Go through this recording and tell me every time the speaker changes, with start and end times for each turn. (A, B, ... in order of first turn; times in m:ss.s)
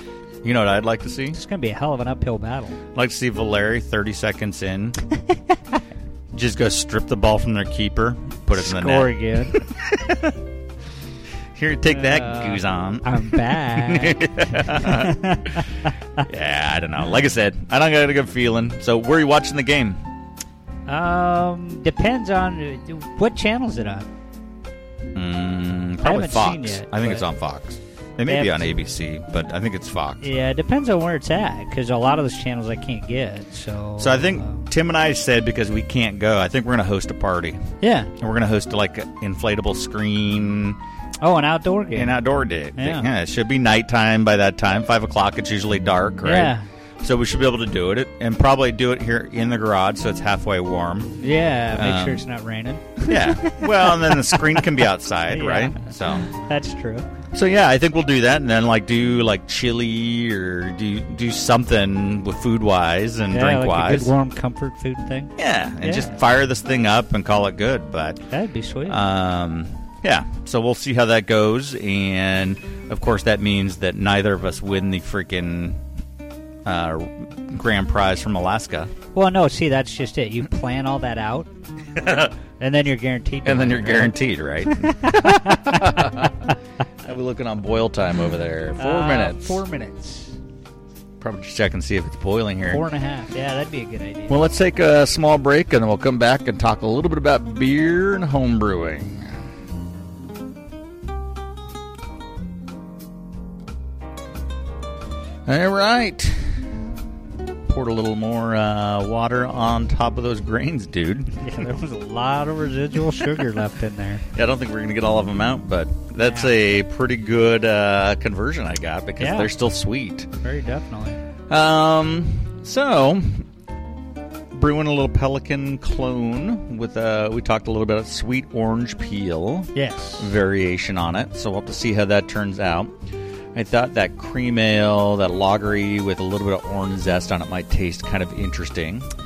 0:00.4-0:01.4 A
0:01.3-0:02.8 B
0:02.9-0:05.0 A
0:06.3-0:10.3 A
0:08.5-0:09.6 B
0:11.5-0:15.6 A
0:11.9-0:15.6 B
0:16.2-0:20.0 A
0:20.9-0:24.1 B
0:25.1-0:30.2 A
0:26.0-0:27.2 B
0:28.3-0:28.6 B
0:30.2-0:34.6 B
0:34.0-0:37.6 A
0:37.8-0:38.1 B
0:38.2-0:40.8 A
0:41.2-0:42.1 B
0:41.9-0:51.2 A
0:42.8-0:43.1 B
0:46.2-0:46.6 B
0:51.2-0:54.7 B
0:51.7-0:52.2 A
0:53.0-0:56.3 A
0:55.3-0:57.1 B
0:57.3-1:04.1 A
1:03.3-1:06.1 B
1:05.4-1:08.2 A
1:08.3-1:09.0 B
1:08.9-1:15.8 A
1:16.6-1:18.9 A
1:19.1-1:21.5 B
1:22.0-1:22.3 A
1:22.6-1:24.1 B
1:23.4-1:26.5 A
1:24.7-1:26.2 B
1:27.0-1:29.6 A
1:28.8-1:30.4 B
1:31.2-1:32.8 A
1:32.7-1:34.4 B
1:34.3-1:39.4 A
1:45.4-1:46.6 A
1:47.6-1:51.4 A
1:51.4-1:54.2 B
1:54.3-2:00.3 A
1:56.2-1:56.5 B
1:59.2-1:59.5 B
2:00.4-2:01.2 B
2:01.5-2:03.4 A
2:04.5-2:12.9 A
2:09.7-2:10.3 B
2:13.5-2:19.1 A